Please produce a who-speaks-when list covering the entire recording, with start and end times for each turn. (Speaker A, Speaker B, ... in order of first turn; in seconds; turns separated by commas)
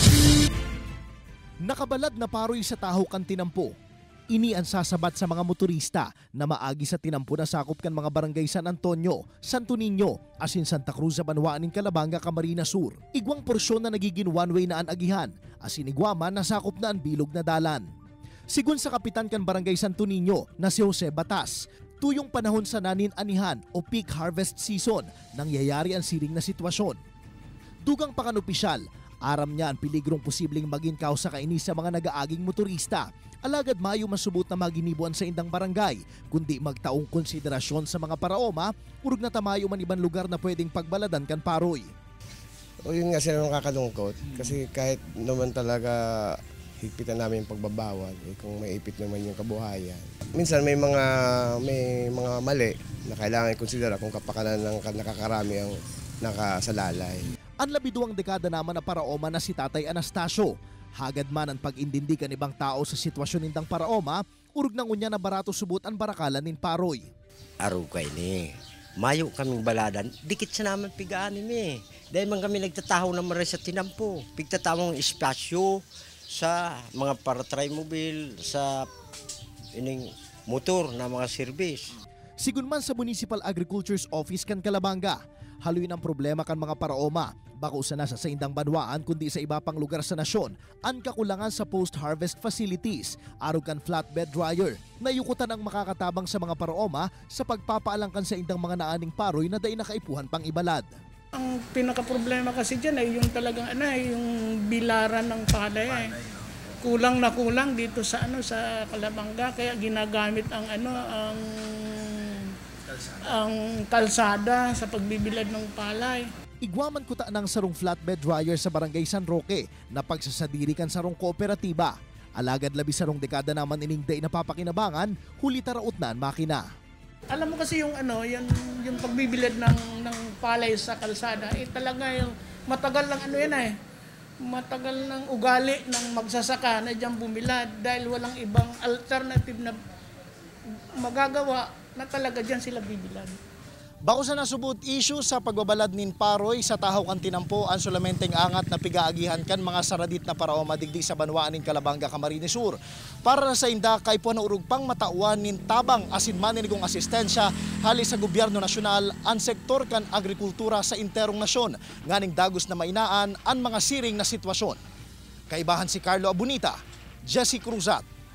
Speaker A: 1.6-3.7, Speaker A: 4.3-17.8, Speaker A: 18.5-27.0, Speaker A: 27.8-41.9, Speaker B: 42.8-57.3, Speaker A: 57.6-67.1, Speaker C: 67.6-78.9, Speaker C: 79.7-81.9, Speaker A: 82.4-100.8, Speaker D: 101.3-106.2, Speaker D: 106.8-112.5, Speaker D: 113.2-116.3, Speaker A: 116.6-126.6, Speaker D: 127.3-133.7, Speaker D: 134.4-139.8, Speaker D: 140.7-143.3, Speaker A: 144.1-164.8, Speaker A: 165.5-166.8, Speaker A: 167.3-168.0